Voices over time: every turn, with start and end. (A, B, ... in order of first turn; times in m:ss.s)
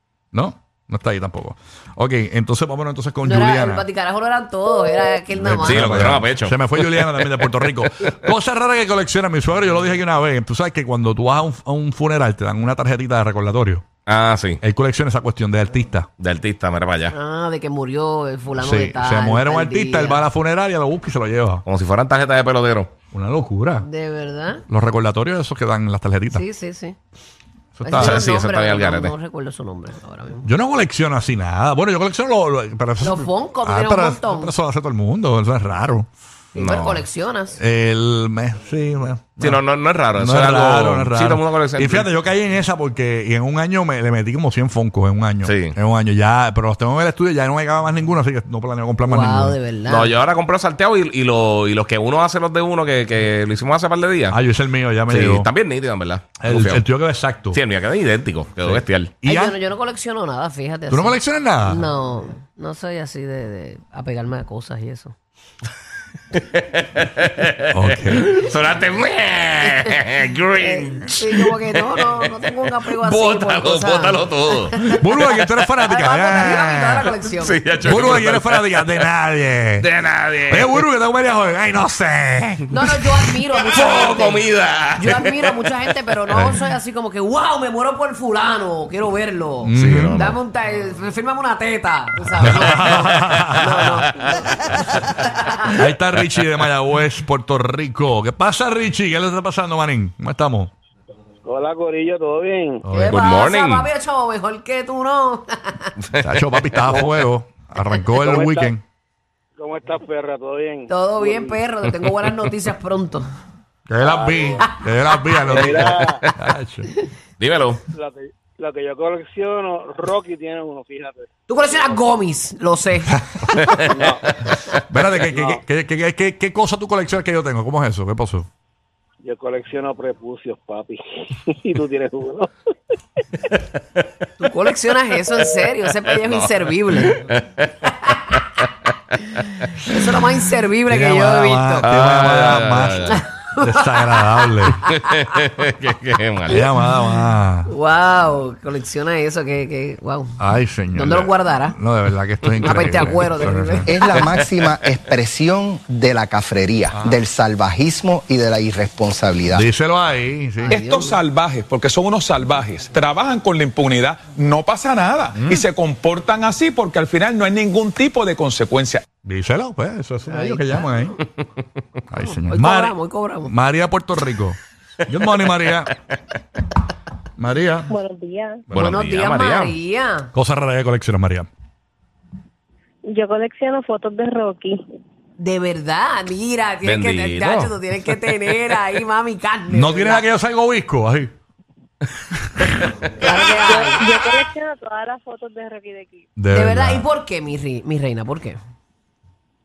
0:00.3-0:03.8 A
0:03.2-0:06.2 B
0:05.4-0:13.9 A
0:05.6-0:07.6 C
0:14.0-0:14.6 C
0:14.6-0:16.1 A
0:16.2-0:17.1 C
0:17.1-0:20.2 B
0:18.6-0:21.6 A
0:21.6-0:22.9 C
0:23.1-0:23.9 A
0:23.8-0:24.6 B
0:24.7-0:26.4 A
0:26.3-0:27.0 B
0:27.8-0:28.2 A
0:27.8-0:30.5 B
0:28.0-0:29.1 C
0:30.4-0:36.1 A
0:33.0-0:34.5 B
0:36.5-0:37.6 B
0:36.5-0:37.0 C
0:37.6-0:39.6 A
0:39.4-0:42.1 C
0:40.1-0:49.6 A
0:45.4-0:45.7 C
0:49.0-0:50.1 B
0:49.9-0:54.4 C
0:54.3-0:55.5 A
0:55.1-0:56.8 C
0:56.4-0:57.6 A
0:57.5-0:59.1 C
0:58.6-0:59.6 A
0:59.2-1:05.1 B
1:00.9-1:01.8 A
1:06.3-1:15.5 C
1:07.7-1:08.5 A
1:10.6-1:15.0 B
1:14.8-1:17.1 A
1:15.8-1:17.6 B
1:17.4-1:19.0 C
1:17.8-1:19.9 A
1:19.8-1:20.8 C
1:20.5-1:23.3 A
1:22.7-1:35.8 B
1:23.7-1:25.7 C
1:26.3-1:26.6 A
1:29.6-1:30.4 A
1:29.7-1:30.4 C
1:32.4-1:34.1 A
1:35.7-1:40.7 A
1:41.4-1:42.8 D
1:42.8-1:43.2 A
1:42.9-1:45.9 B
1:43.1-1:43.9 C
1:46.0-1:46.9 C
1:46.2-1:48.8 A
1:48.2-1:48.7 D
1:49.6-1:51.6 D
1:50.9-1:53.2 B
1:53.9-1:56.9 A
1:54.0-1:54.6 D
1:54.6-1:55.6 B
1:55.5-1:56.2 D
1:55.7-1:56.2 C
1:57.4-1:57.8 C
1:57.9-2:01.3 D
2:01.5-2:03.8 B
2:03.9-2:04.2 D
2:04.9-2:08.5 A
2:05.3-2:05.6 D
2:09.2-2:12.5 D
2:14.4-2:17.2 B
2:15.8-2:19.4 C
2:19.8-2:21.9 B
2:20.9-2:24.8 A
2:21.8-2:23.2 C
2:23.0-2:25.2 B
2:24.8-2:26.6 C
2:26.5-2:27.7 A
2:27.7-2:30.4 B
2:30.4-2:34.0 A
2:30.9-2:31.8 B
2:32.5-2:32.8 C
2:32.6-2:34.3 B
2:33.8-2:39.7 E
2:34.3-2:34.9 C
2:36.9-2:37.2 A
2:39.5-2:40.8 A
2:40.6-2:41.2 B
2:40.7-2:49.0 F
2:45.3-2:45.7 A
2:49.2-2:51.2 A
2:50.3-2:51.2 B
2:52.1-2:55.9 A
2:52.2-2:53.5 B
2:57.4-2:57.9 A
2:57.9-2:58.6 G
2:58.7-2:59.7 C
2:58.7-3:00.3 B
3:00.3-3:01.5 A
3:03.0-3:04.8 G
3:05.4-3:10.3 B
3:06.8-3:07.7 C
3:09.7-3:11.3 A
3:12.6-3:12.9 A
3:13.1-3:14.0 B
3:13.6-3:16.3 G
3:16.4-3:17.0 A
3:16.5-3:18.6 B